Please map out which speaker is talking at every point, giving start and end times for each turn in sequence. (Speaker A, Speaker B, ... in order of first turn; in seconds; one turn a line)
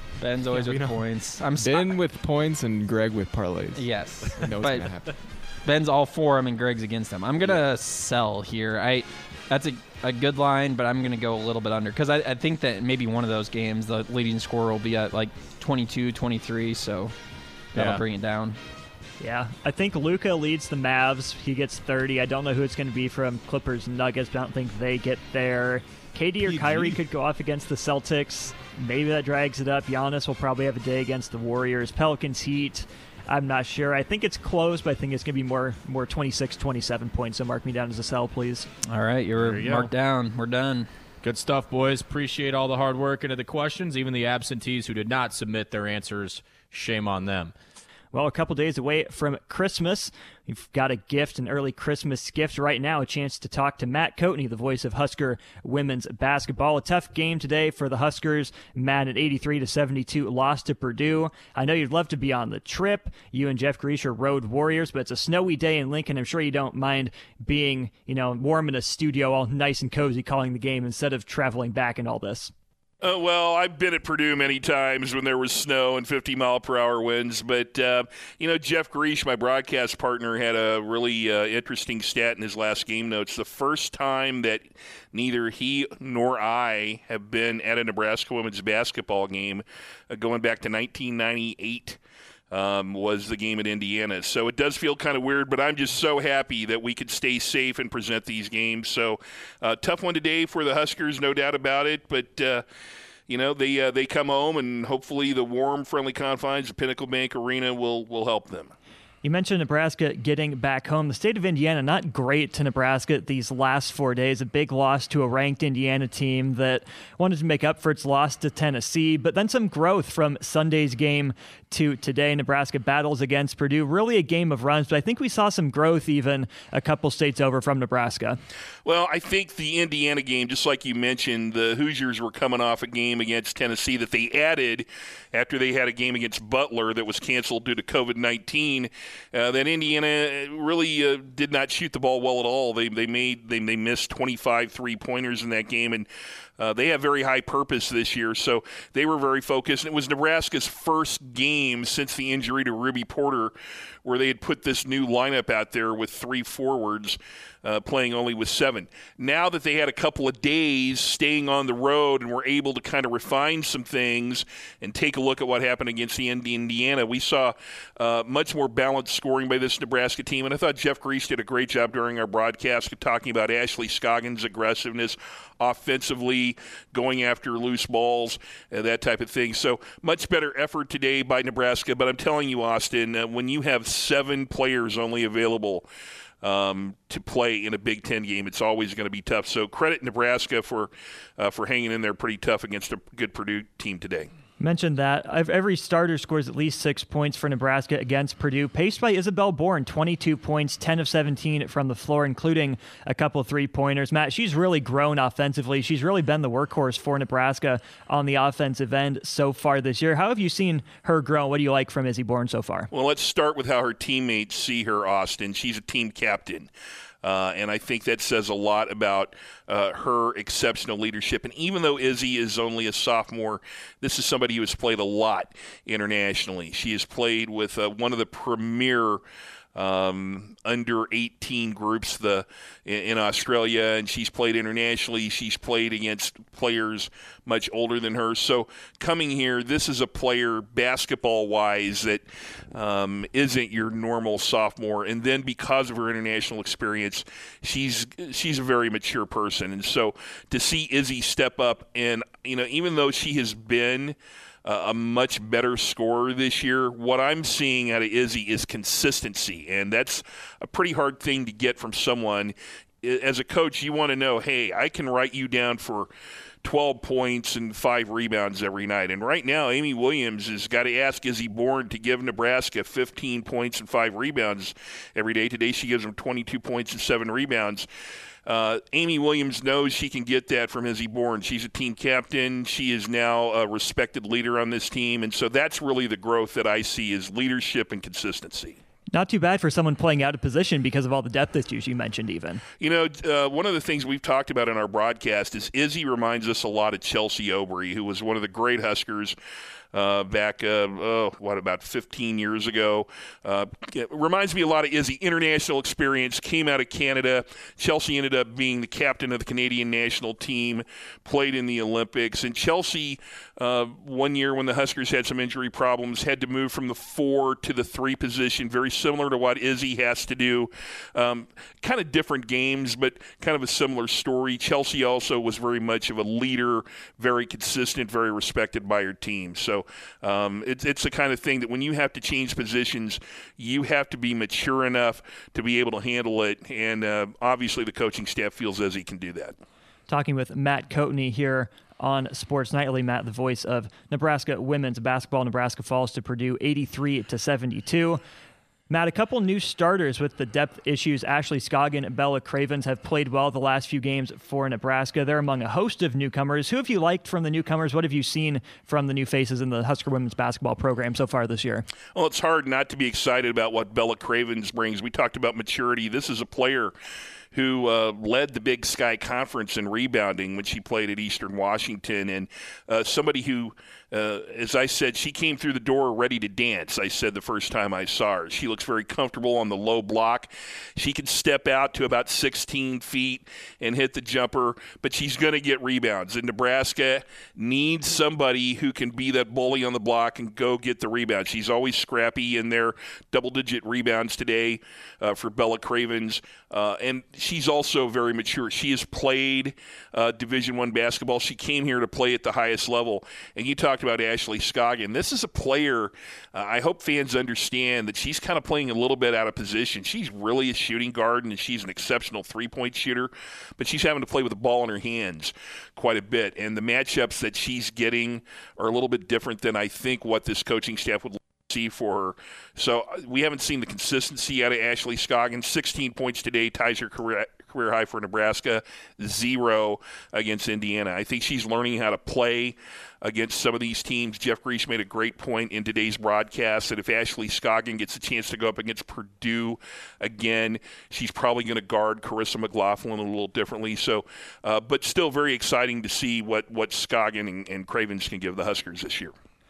Speaker A: 0.2-1.9
Speaker B: 0.5-5.1
Speaker A: 3.7-5.0
Speaker A: 5.6-17.1
Speaker A: 17.7-18.6
Speaker C: 17.7-18.0
Speaker D: 19.2-38.7
Speaker C: 26.6-26.9
Speaker A: 38.9-40.9
Speaker C: 39.4-39.9
Speaker C: 41.2-47.5
Speaker D: 48.1-72.5
Speaker E: 73.0-92.0
Speaker E: 92.5-102.6
Speaker E: 103.3-108.7
Speaker D: 109.2-128.4
Speaker E: 128.8-146.1
Speaker E: 146.6-153.5
Speaker E: 154.0-185.9
Speaker E: 186.4-194.3
Speaker D: 194.6-212.9
Speaker E: 212.9-216.7
Speaker E: 217.2-229.2
Speaker E: 229.7-266.1
Speaker E: 266.6-277.9
Speaker E: 278.5-288.8
Speaker D: 289.1-292.6
Speaker E: 292.8-299.4
Speaker E: 299.9-339.5
Speaker D: 340.1-348.2
Speaker D: 348.9-361.9
Speaker E: 362.1-366.9
Speaker E: 367.5-449.3